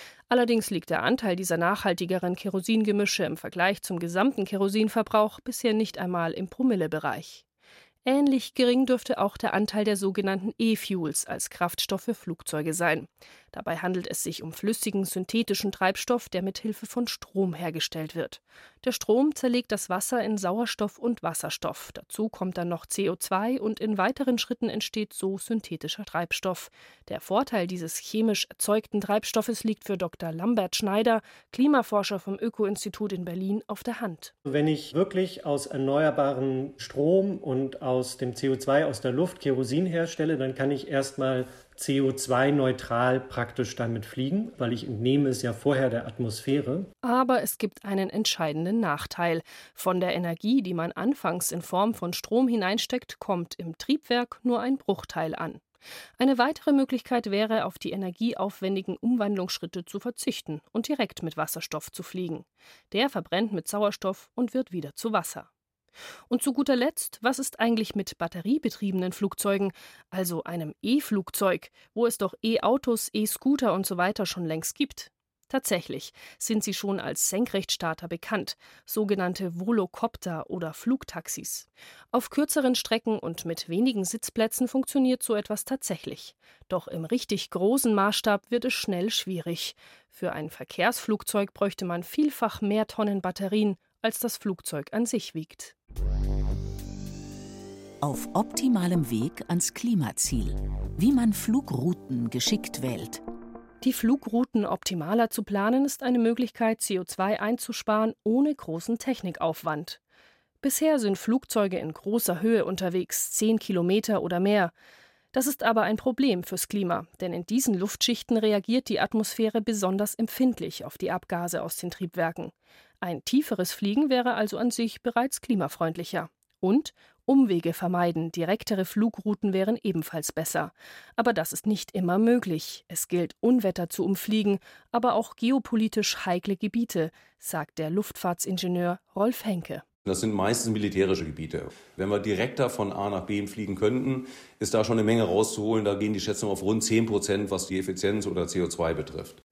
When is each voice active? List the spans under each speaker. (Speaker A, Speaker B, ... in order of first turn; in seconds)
Speaker A: 0.3-7.4, 8.1-34.4, 47.0-55.6, 56.2-65.5, 66.3-95.8, 103.8-110.0, 110.6-114.7, 115.3-139.8
Speaker B: 34.5-46.9
Speaker C: 98.0-103.2
Speaker D: 140.1-149.4